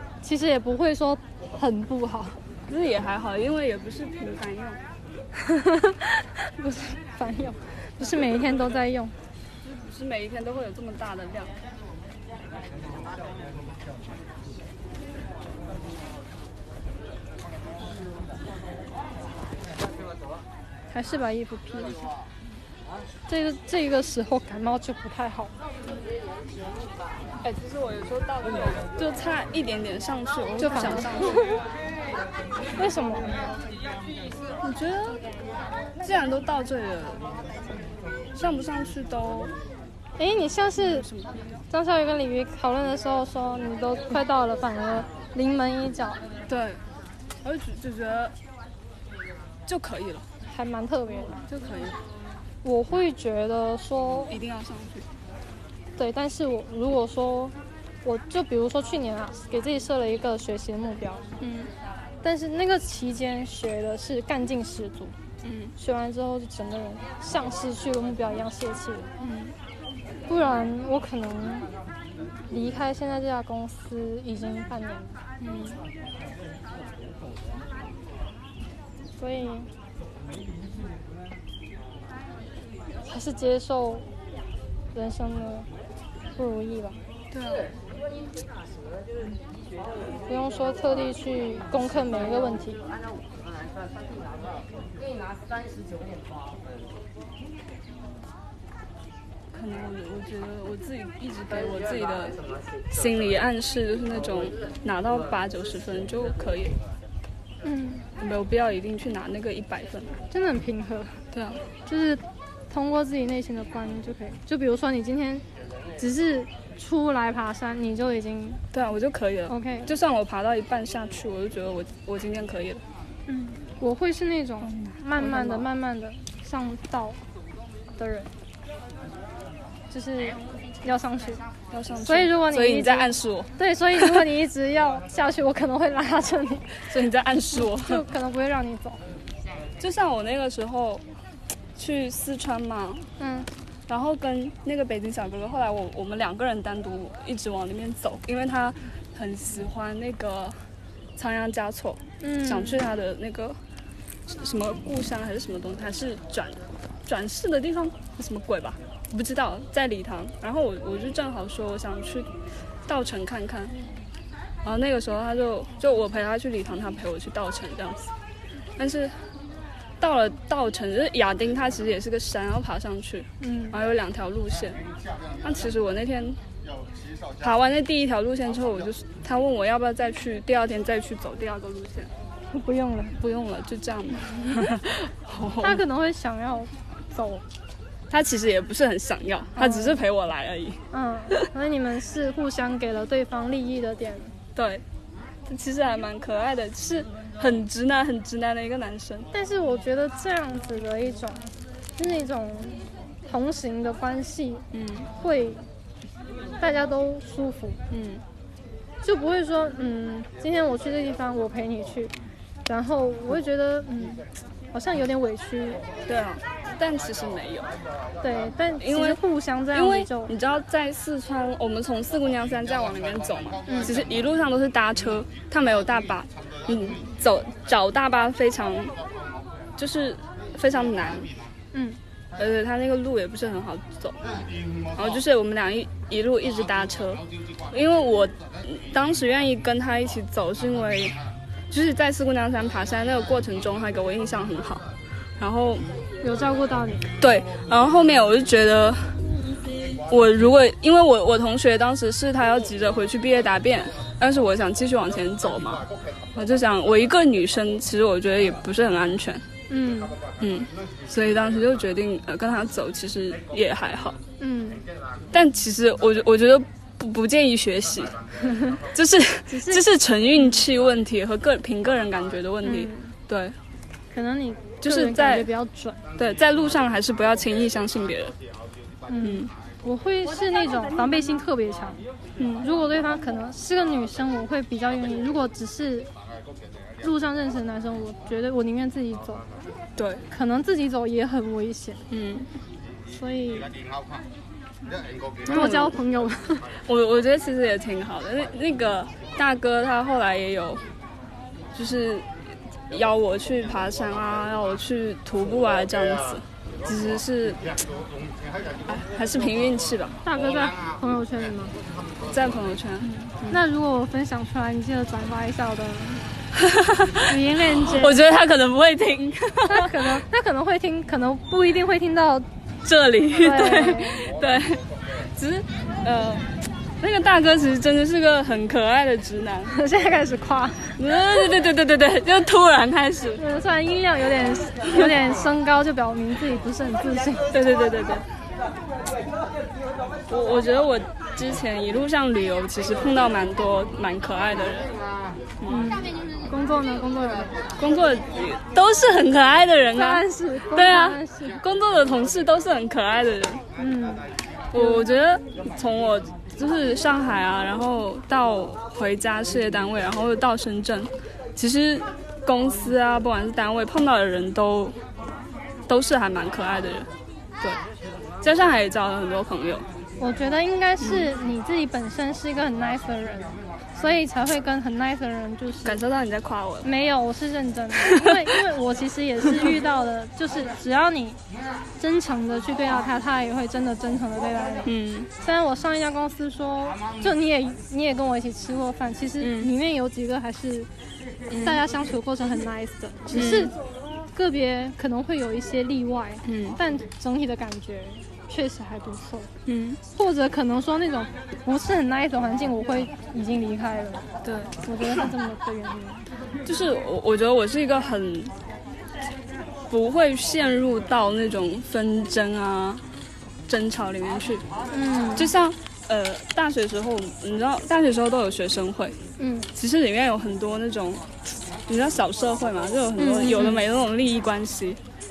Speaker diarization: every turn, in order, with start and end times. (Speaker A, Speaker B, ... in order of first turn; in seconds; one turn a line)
Speaker A: 0.2-2.4
Speaker B: 2.7-4.8
Speaker A: 5.4-9.2
Speaker B: 9.6-11.6
Speaker A: 20.9-22.1
Speaker A: 23.3-25.5
Speaker B: 27.4-31.5
Speaker A: 30.6-31.5
Speaker A: 32.8-33.4
Speaker B: 34.6-35.2
Speaker B: 36.0-37.2
Speaker B: 38.3-39.5
Speaker A: 40.2-41.1
Speaker B: 40.8-41.5
Speaker A: 41.7-46.2
Speaker B: 46.5-46.8
Speaker B: 47.4-48.4
Speaker B: 49.7-50.3
Speaker A: 50.5-51.4
Speaker B: 51.5-52.0
Speaker A: 52.6-54.4
Speaker B: 54.3-55.1
Speaker A: 56.0-61.2
Speaker B: 61.4-61.7
Speaker A: 62.2-65.2
Speaker B: 65.4-65.7
Speaker A: 65.8-69.1
Speaker B: 69.2-69.6
Speaker A: 70.3-71.7
Speaker A: 72.5-75.2
Speaker B: 75.4-75.8
Speaker A: 79.2-79.7
Speaker A: 83.0-84.1
Speaker A: 84.9-85.7
Speaker A: 86.3-87.0
Speaker B: 87.3-87.8
Speaker A: 90.3-92.8
Speaker B: 99.5-102.4
Speaker B: 102.9-106.8
Speaker A: 107.6-108.1
Speaker B: 108.2-110.2
Speaker A: 110.3-111.2
Speaker B: 111.3-111.6
Speaker A: 111.9-115.5
Speaker A: 116.0-118.6
Speaker B: 118.7-122.8
Speaker A: 119.5-119.9
Speaker A: 123.3-127.2
Speaker B: 124.7-125.7
Speaker A: 128.0-128.3
Speaker A: 129.9-131.4
Speaker B: 131.7-134.2
Speaker A: 132.0-136.9
Speaker B: 136.9-138.0
Speaker A: 137.5-139.0
Speaker B: 139.8-141.0
Speaker B: 141.8-143.1
Speaker A: 143.2-143.5
Speaker B: 143.9-150.7
Speaker B: 151.2-153.6
Speaker A: 152.2-152.8
Speaker B: 154.3-162.3
Speaker B: 162.9-163.8
Speaker B: 164.6-168.1
Speaker B: 168.8-169.2
Speaker B: 170.0-174.8
Speaker A: 173.4-173.8
Speaker B: 175.4-176.4
Speaker B: 177.4-182.1
Speaker A: 182.5-183.2
Speaker B: 183.2-185.8
Speaker A: 185.6-187.4
Speaker B: 188.1-191.5
Speaker A: 189.6-190.0
Speaker A: 190.9-194.4
Speaker B: 194.6-194.8
Speaker B: 195.5-199.3
Speaker A: 199.3-205.6
Speaker B: 204.7-205.1
Speaker A: 206.6-207.8
Speaker B: 207.9-208.2
Speaker A: 209.0-212.1
Speaker A: 212.7-215.8
Speaker B: 216.1-217.7
Speaker A: 218.2-220.3
Speaker B: 218.8-219.2
Speaker B: 219.7-229.0
Speaker A: 223.7-224.0
Speaker B: 229.8-231.3
Speaker A: 231.7-232.0
Speaker B: 232.4-234.3
Speaker B: 234.9-241.2
Speaker B: 241.7-244.9
Speaker B: 245.4-245.9
Speaker A: 246.2-247.1
Speaker B: 247.2-249.2
Speaker B: 249.9-259.5
Speaker A: 259.7-260.2
Speaker B: 260.4-264.2
Speaker A: 264.4-264.9
Speaker B: 265.3-268.3
Speaker A: 268.4-268.8
Speaker B: 268.9-273.6
Speaker A: 269.5-269.9
Speaker A: 272.6-273.1
Speaker A: 274.1-276.0
Speaker B: 274.8-275.5
Speaker B: 276.2-278.4
Speaker A: 279.1-282.0
Speaker B: 279.2-279.5
Speaker B: 282.4-282.7
Speaker A: 282.6-286.1
Speaker A: 287.0-289.4
Speaker B: 290.0-290.2
Speaker A: 290.3-292.0
Speaker B: 292.1-292.5
Speaker A: 293.1-293.7
Speaker B: 295.5-296.0
Speaker A: 295.5-296.8
Speaker B: 296.9-300.8
Speaker B: 301.7-302.3
Speaker B: 302.9-307.8
Speaker B: 308.9-310.2
Speaker A: 310.2-311.8
Speaker B: 312.3-313.6
Speaker A: 313.0-316.3
Speaker B: 316.6-320.2
Speaker A: 317.2-318.2
Speaker A: 319.7-322.5
Speaker B: 322.8-329.7
Speaker A: 323.4-324.2
Speaker A: 329.7-331.0
Speaker B: 331.0-333.4
Speaker A: 333.4-337.5
Speaker B: 337.5-338.3
Speaker B: 340.3-344.9
Speaker A: 345.7-347.7
Speaker B: 347.8-353.6
Speaker A: 349.9-351.6
Speaker A: 353.8-355.1
Speaker B: 354.7-365.0
Speaker B: 365.9-367.1
Speaker B: 368.4-369.9
Speaker A: 370.2-376.0
Speaker B: 371.0-371.3
Speaker B: 375.8-376.9
Speaker A: 376.8-381.4
Speaker B: 378.0-378.4
Speaker A: 382.0-384.9
Speaker B: 384.9-385.3
Speaker A: 385.4-390.9
Speaker B: 389.4-389.7
Speaker B: 391.5-391.8
Speaker A: 391.6-393.8
Speaker B: 393.3-393.7
Speaker A: 394.3-399.5
Speaker B: 396.4-396.8
Speaker B: 399.7-400.0
Speaker A: 400.1-404.3
Speaker B: 404.4-405.2
Speaker A: 404.8-406.3
Speaker B: 406.6-408.5
Speaker B: 409.9-413.1
Speaker B: 413.7-414.7
Speaker A: 414.9-415.5
Speaker B: 415.3-419.2
Speaker A: 419.4-419.7
Speaker B: 419.7-425.0
Speaker A: 423.2-423.8